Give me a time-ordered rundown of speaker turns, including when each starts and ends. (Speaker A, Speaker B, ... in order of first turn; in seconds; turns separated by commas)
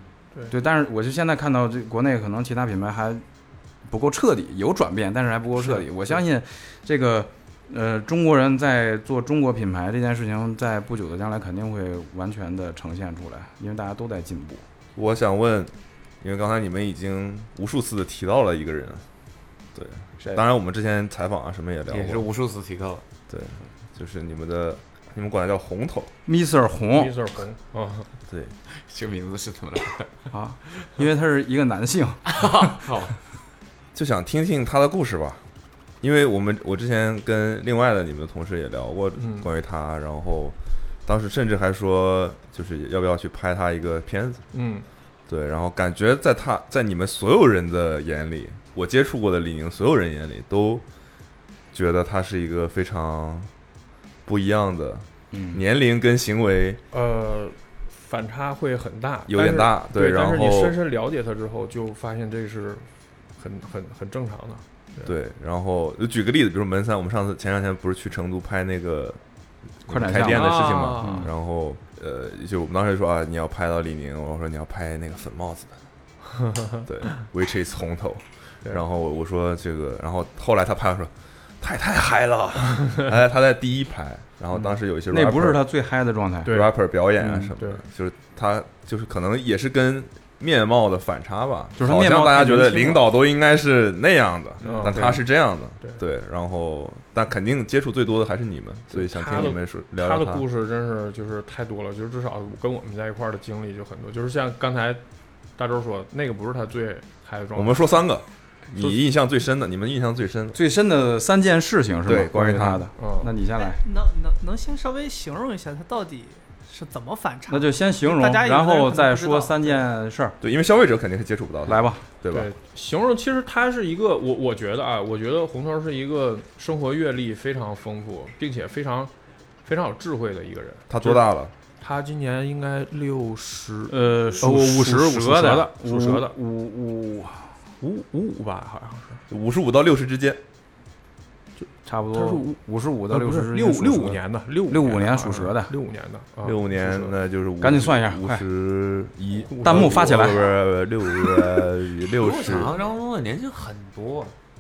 Speaker A: 0.5-3.2, Speaker A: 3.9-14.6, Speaker B: 5.6-5.8, Speaker C: 14.9-19.0, Speaker C: 19.7-22.3, Speaker D: 21.9-23.0, Speaker C: 23.3-26.1, Speaker A: 26.3-27.2, Speaker B: 26.9-28.1, Speaker C: 28.3-28.5, Speaker D: 28.7-30.1, Speaker A: 30.3-32.9, Speaker D: 32.3-33.1, Speaker C: 33.9-35.4, Speaker C: 36.0-40.5, Speaker B: 39.2-39.5, Speaker C: 41.1-44.4, Speaker B: 44.5-44.9, Speaker C: 45.3-50.8, Speaker C: 51.7-53.5, Speaker C: 54.3-56.8, Speaker A: 55.3-55.6, Speaker B: 56.9-65.1, Speaker C: 59.3-60.8, Speaker C: 65.0-69.2, Speaker C: 69.8-75.7, Speaker A: 69.9-71.3, Speaker B: 70.2-71.3, Speaker B: 76.5-76.8, Speaker C: 76.8-85.6, Speaker A: 85.1-86.5, Speaker B: 86.5-87.8, Speaker C: 86.5-100.4, Speaker A: 91.8-93.1, Speaker B: 94.6-95.2, Speaker A: 94.7-95.2, Speaker B: 98.9-105.0, Speaker B: 105.6-108.0, Speaker C: 107.6-110.6, Speaker A: 110.5-113.8, Speaker C: 112.1-112.9, Speaker B: 113.0-113.3, Speaker E: 113.6-119.8, Speaker A: 117.5-120.3, Speaker C: 120.4-122.5, Speaker A: 121.7-122.0, Speaker B: 122.3-129.1, Speaker B: 129.6-131.3, Speaker C: 130.9-131.5, Speaker B: 131.8-136.3, Speaker A: 133.9-137.5, Speaker B: 137.8-139.2, Speaker C: 139.3-140.4, Speaker A: 141.8-145.7, Speaker B: 142.1-142.6, Speaker B: 143.1-147.2, Speaker C: 146.4-152.7, Speaker A: 147.6-148.4, Speaker B: 149.5-150.3, Speaker A: 149.6-150.5, Speaker D: 152.1-154.3